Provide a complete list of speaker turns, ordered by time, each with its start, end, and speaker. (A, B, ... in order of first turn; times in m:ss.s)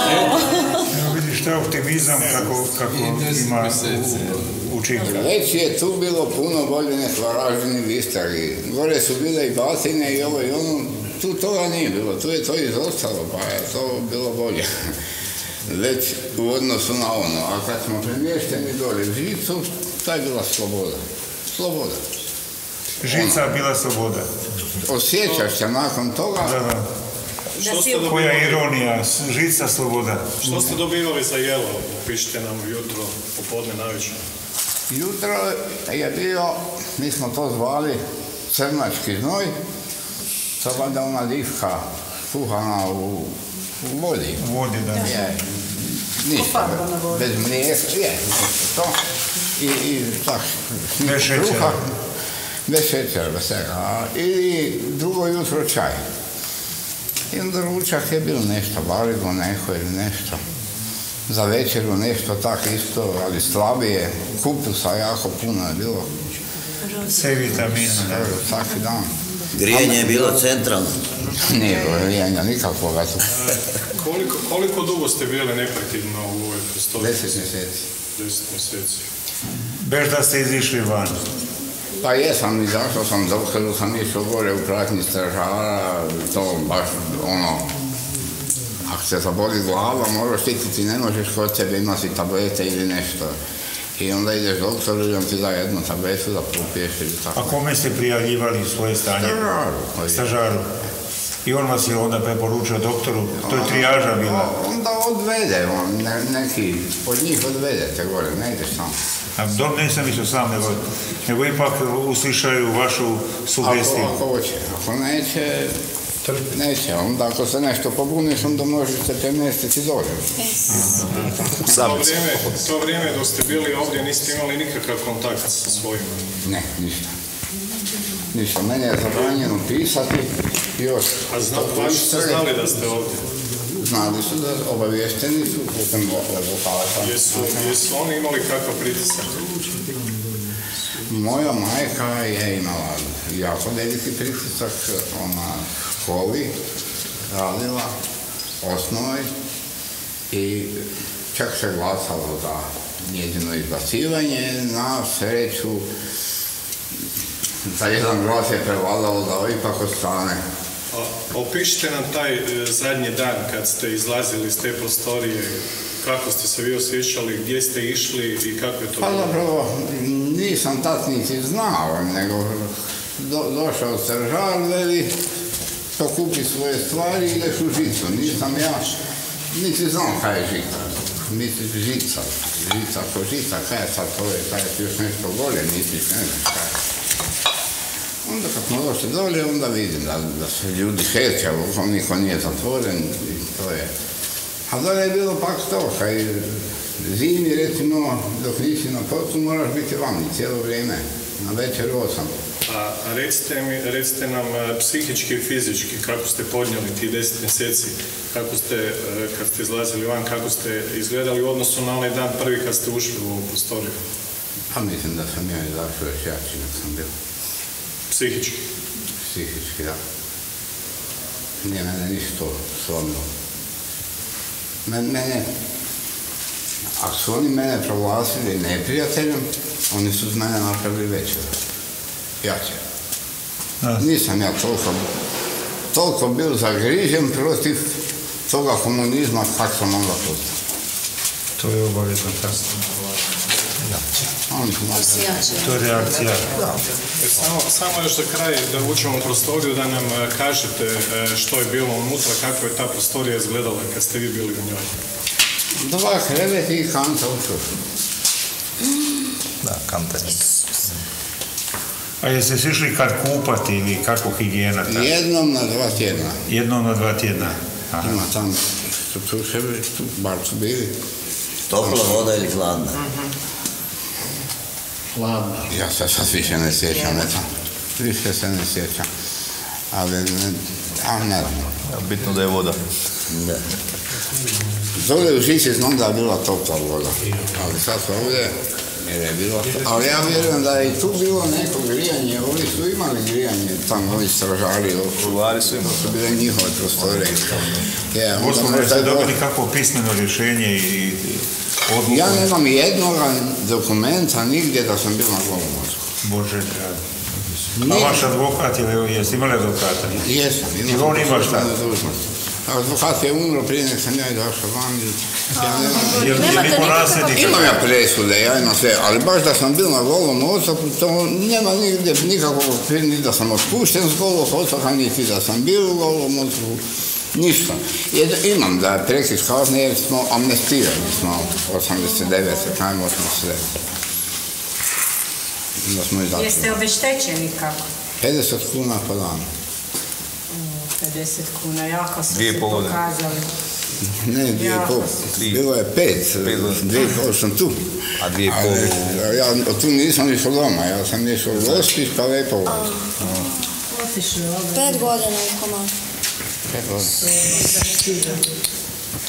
0:00.9-0:05.3 A
0:05.0-0:14.9 B
0:15.7-0:22.0 B
0:23.0-0:24.3 A
0:23.1-0:23.4 B
0:24.8-0:26.6 B
0:26.4-0:26.9 A
0:27.6-0:28.7 C
0:28.0-0:30.6 A
0:30.4-0:34.2 C
0:34.9-0:39.5 B
0:40.6-0:44.4 B
0:44.4-0:45.1 A
0:45.0-0:49.0 B
0:49.6-0:51.8 B
0:51.0-0:51.8 A
0:52.7-0:56.0 B
0:57.3-1:00.4 B
1:01.3-1:06.2 B
1:07.0-1:08.3 A
1:08.0-1:09.1 B
1:09.5-1:11.0 D
1:09.7-1:10.4 B
1:11.3-1:13.3 B
1:13.3-1:17.2 C
1:17.0-1:17.8 B
1:18.2-1:19.0 C
1:19.8-1:21.3 A
1:22.0-1:27.7 B
1:28.8-1:33.3 B
1:34.0-1:37.6 B
1:37.4-1:39.5 A
1:39.2-1:40.4 B
1:40.1-1:40.7 A
1:41.4-1:44.5 A
1:43.4-1:48.9 B
1:49.4-1:54.2 A
1:53.6-1:55.7 B
1:56.4-2:00.3 B
2:00.4-2:00.7 E
2:01.1-2:06.3 C
2:01.6-2:02.5 F
2:06.4-2:07.1 B
2:08.3-2:12.5 B
2:11.3-2:13.2 C
2:13.7-2:17.7 B
2:17.0-2:19.6 C
2:21.1-2:26.5 B
2:27.3-2:28.0 B
2:28.6-2:29.3 B
2:30.3-2:35.9 B
2:37.7-2:40.4 B
2:40.9-2:49.3 C
2:49.0-2:55.2 B
2:56.0-2:58.9 B
2:59.5-3:06.7 B
3:08.2-3:13.9 B
3:14.7-3:22.3 B
3:22.7-3:34.0 C
3:34.7-3:37.1 B
3:38.1-3:38.6 C
3:39.2-3:40.0 B
3:41.6-3:43.2 B
3:44.8-3:45.5 B
3:47.0-3:51.5 B
3:52.4-3:52.8 B
3:54.0-3:55.1 B
3:55.9-4:00.5 B
4:01.6-4:02.8 A
4:04.5-4:05.6 B
4:05.0-4:05.8 E
4:05.6-4:06.6 A
4:07.2-4:14.9 C
4:15.8-4:17.7 B
4:19.6-4:20.6 F
4:22.2-4:25.1 A
4:24.9-4:26.4 B
4:26.5-4:28.2 A
4:28.0-4:30.9 B
4:31.7-4:33.0 D
4:35.7-4:37.5 B
4:38.0-4:39.1 B
4:39.9-4:41.7 B
4:41.9-4:42.8 F
4:44.9-4:59.4 B
4:55.2-4:56.1 F
4:57.1-4:57.7 F
4:58.3-5:02.5 A
5:02.1-5:06.1 B
5:06.2-5:07.0 A
5:07.8-5:08.3 B
5:07.8-5:10.3 A
5:10.2-5:26.8 B
5:10.8-5:11.8 A
5:15.6-5:17.5 E
5:16.1-5:17.8 A
5:27.3-5:33.6 B
5:35.8-5:36.8 B
5:36.3-5:37.8 G
5:38.2-5:39.5 B
5:40.7-5:43.5 G
5:42.3-5:43.0 F
5:44.1-5:53.0 B
5:44.6-5:44.9 G
5:45.3-5:45.6 F
5:46.4-5:47.0 F
5:48.2-5:49.2 F
5:52.7-5:53.3 E
5:53.9-5:55.0 G
5:54.7-5:55.9 E
5:56.7-5:57.3 B
5:57.5-5:58.2 G